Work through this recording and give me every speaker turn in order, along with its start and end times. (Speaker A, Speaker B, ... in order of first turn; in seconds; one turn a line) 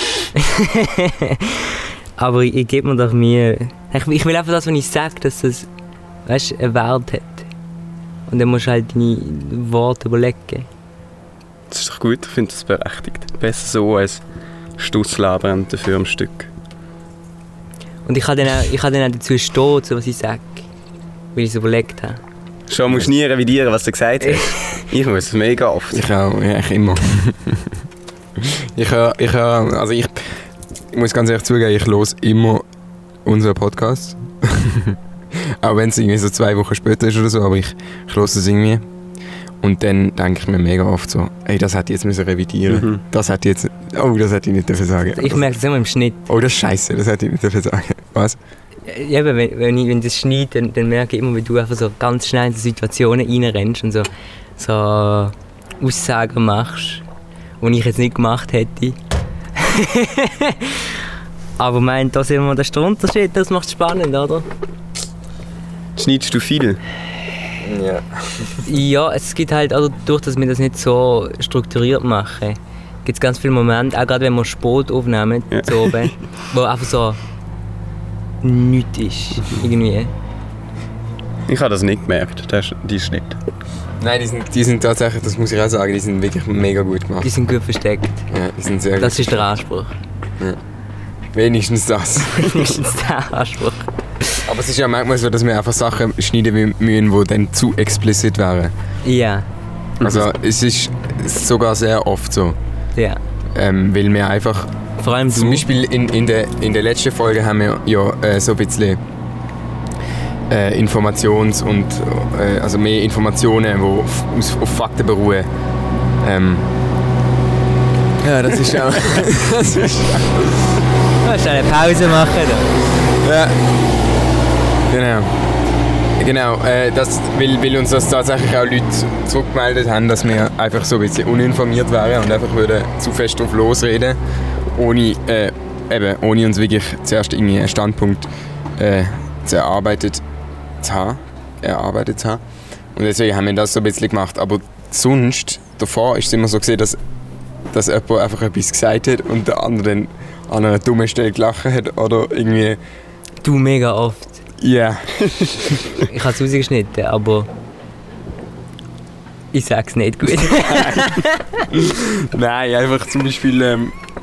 Speaker A: 0.3-5.7
Speaker A: 6.2-7.5
Speaker A: 8.3-10.7
Speaker B: 11.7-14.2
Speaker B: 14.8-16.5
Speaker A: 18.1-20.6
Speaker A: 21.3-22.2
Speaker B: 22.7-26.0
Speaker A: 24.2-24.6
Speaker C: 25.9-27.7
Speaker C: 28.4-32.6
Speaker C: 33.2-38.8
Speaker C: 39.6-45.5
Speaker B: 42.7-43.0
Speaker A: 45.1-46.2
Speaker C: 46.3-48.4
Speaker A: 48.8-57.0
Speaker A: 57.6-59.0
Speaker A: 59.5-61.0
Speaker A: 61.6-64.5
Speaker B: 66.0-66.8
Speaker C: 67.6-68.7
Speaker A: 68.6-77.2
Speaker B: 75.5-76.1
Speaker A: 78.4-80.1
Speaker B: 81.5-83.4
Speaker C: 84.0-87.3
Speaker A: 87.2-88.2
Speaker C: 88.3-89.4
Speaker A: 89.0-89.9
Speaker C: 91.3-92.7
Speaker A: 92.3-93.9
Speaker C: 94.4-98.7
Speaker A: 99.0-99.5
Speaker B: 100.0-100.3
Speaker C: 100.0-102.6
Speaker C: 103.5-104.7
Speaker A: 105.0-105.7
Speaker C: 105.3-109.0
Speaker C: 110.5-115.5
Speaker C: 116.2-116.7
Speaker C: 118.2-120.8
Speaker B: 118.8-119.2
Speaker A: 121.2-122.7
Speaker C: 123.1-123.6
Speaker C: 124.9-125.4
Speaker C: 126.2-134.2
Speaker C: 134.7-140.2
Speaker C: 140.8-142.4
Speaker C: 142.9-147.0
Speaker C: 147.7-152.8
Speaker A: 153.4-154.4
Speaker C: 154.6-155.3
Speaker A: 156.0-157.5
Speaker A: 159.5-161.7
Speaker C: 160.5-163.9